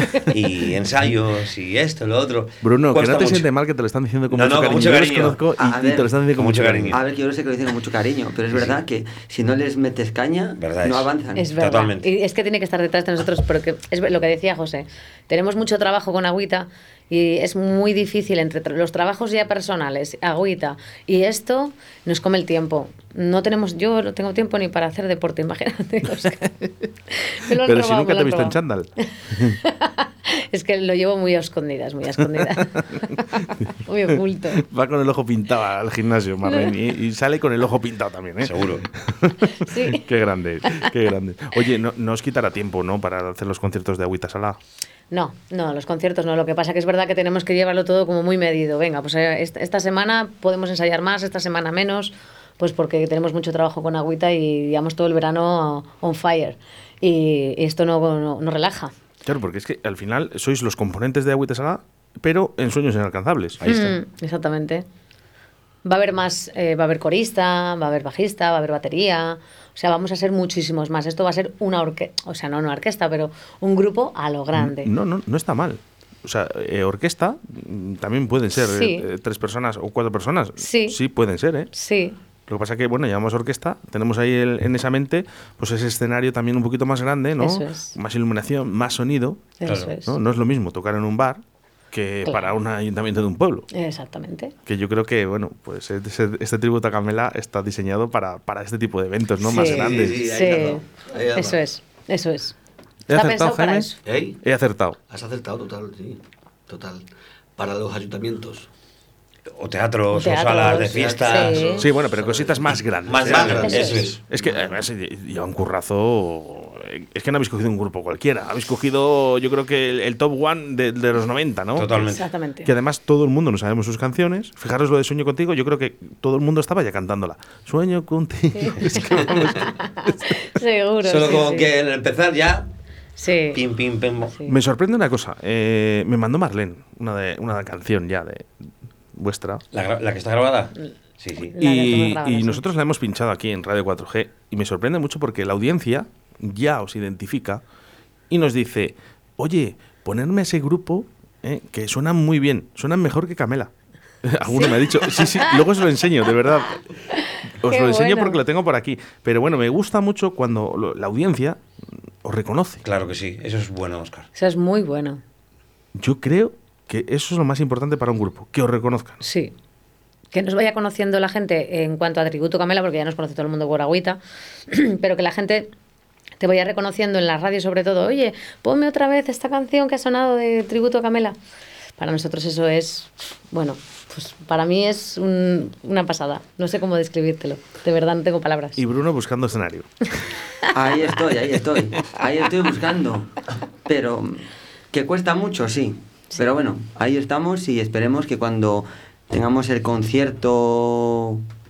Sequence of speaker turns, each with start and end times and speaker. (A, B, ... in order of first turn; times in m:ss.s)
0:00.3-0:03.5 A
0:02.6-0:07.0 B
0:04.3-0:05.4 A
0:05.6-0:06.2 C
0:06.4-0:07.0 A
0:06.9-0:11.5 C
0:08.5-0:08.8 A
0:10.6-0:11.1 A
0:11.4-0:28.6 D
0:11.6-0:12.1 A
0:27.5-0:29.6 B
0:29.6-0:34.6 D
0:32.2-0:44.6 B
0:36.4-0:36.7 D
0:38.4-0:38.8 A
0:39.5-0:40.0 D
0:45.1-0:58.9 D
0:59.2-1:03.7 B
1:03.6-1:03.9 E
1:03.6-1:04.8 D
1:05.8-1:14.9 D
1:14.5-1:21.7 B
1:18.6-1:19.0 D
1:20.6-1:21.0 D
1:21.7-1:22.2 D
1:22.5-1:31.4 B
1:27.4-1:27.9 D
1:29.6-1:30.2 D
1:31.9-1:33.7 B
1:32.2-1:32.5 D
1:33.7-1:34.5 D
1:34.6-1:40.2 B
1:39.4-1:40.8 D
1:39.5-1:41.6 E
1:41.3-1:42.5 D
1:43.1-1:43.9 B
1:43.1-1:44.0 D
1:44.0-1:44.4 E
1:44.4-1:45.0 B
1:45.1-1:47.0 E
1:47.6-1:48.7 E
1:49.6-1:51.7 A
1:50.1-1:51.8 D
1:50.4-1:54.5 E
1:51.7-2:02.1 B
1:53.1-1:54.2 A
1:53.6-1:54.1 D
2:01.8-2:02.2 A
2:02.0-2:02.7 D
2:02.6-2:10.4 B
2:08.5-2:11.7 D
2:11.0-2:12.6 A
2:13.2-2:13.6 D
2:13.5-2:14.3 A
2:14.4-2:19.6 B
2:19.7-2:21.5 A
2:20.8-2:22.6 D
2:21.6-2:27.6 B
2:28.3-2:33.7 B
2:34.2-2:36.8 B
2:34.4-2:35.6 D
2:37.1-2:38.4 D
2:37.6-2:41.6 B
2:42.2-2:42.8 B
2:42.8-2:44.3 A
2:44.3-2:45.2 D
2:45.9-2:49.2 B
2:49.2-2:49.5 D
2:50.3-2:55.7 D
2:56.4-3:01.4 D
3:02.0-3:08.8 D
3:08.8-3:10.4 B
3:10.7-3:21.4 C